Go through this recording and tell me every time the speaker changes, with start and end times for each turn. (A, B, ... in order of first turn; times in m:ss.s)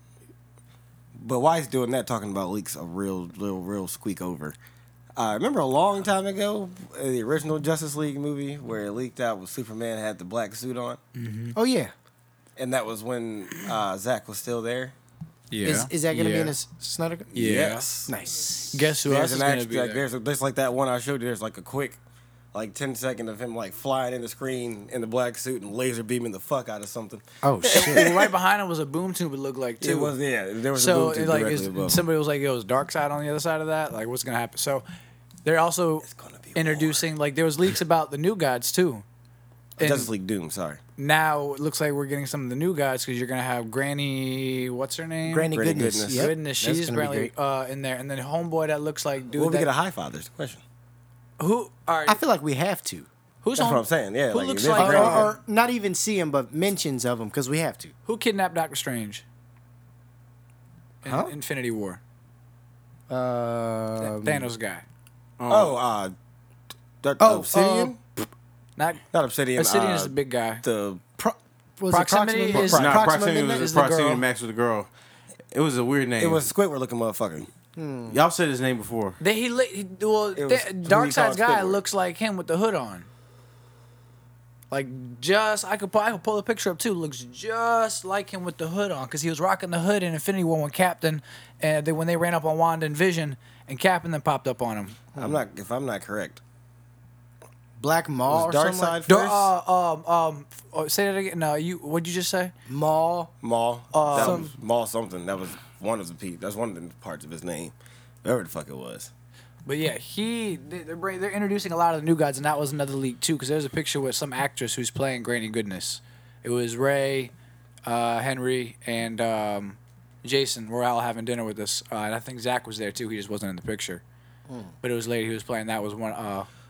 0:01.2-0:04.6 A
0:05.2-0:11.0 A
0:11.2-0:11.6 B
0:11.6-0:11.9 C
0:12.6-0:15.0 A
0:15.5-0:16.5 B
0:15.6-0:17.3 C
0:17.3-0:18.1 A
0:17.3-0:17.9 B
0:18.1-0:18.9 C
0:18.7-0:20.0 B
0:19.0-0:22.0 A
0:22.5-0:28.3 A
0:27.4-0:28.1 C
0:27.7-0:30.1 B
0:29.8-0:32.0 A
0:30.7-0:34.8 B
0:35.4-0:39.0 B
0:36.0-0:37.1 A
0:39.8-0:40.8 A
0:39.8-0:40.1 B
0:41.0-0:45.5 B
0:45.3-0:47.3 C
0:45.5-0:46.3 A
0:46.1-0:49.7 B
0:49.3-0:50.6 A
0:51.4-0:52.2 B
0:52.1-0:53.1 C
0:53.4-0:55.3 B
0:53.6-0:55.3 A
0:54.7-0:57.9 C
0:58.1-0:59.2 B
1:01.0-1:02.0 B
1:01.1-1:01.3 C
1:03.1-1:04.5 C
1:04.0-1:04.8 B
1:05.4-1:05.8 D
1:05.5-1:06.1 A
1:07.0-1:08.0 A
1:07.2-1:08.0 C
1:08.8-1:09.0 B
1:09.1-1:11.0 A
1:09.6-1:10.6 B
1:11.2-1:13.7 C
1:11.9-1:14.2 B
1:12.6-1:13.0 A
1:12.6-1:14.9 D
1:15.5-1:16.5 D
1:16.2-1:17.5 A
1:17.8-1:18.2 C
1:18.1-1:19.2 D
1:19.2-1:23.1 B
1:20.4-1:21.8 A
1:24.7-1:35.0 B
1:35.1-1:35.4 C
1:35.2-1:36.4 A
1:37.8-1:39.0 C
1:38.3-1:39.5 A
1:39.1-1:42.5 B
1:42.7-1:43.3 C
1:43.4-1:49.1 A
1:43.9-1:44.5 B
1:44.1-1:44.5 C
1:49.7-1:57.3 B
1:57.9-2:04.0 B
2:04.8-2:06.5 B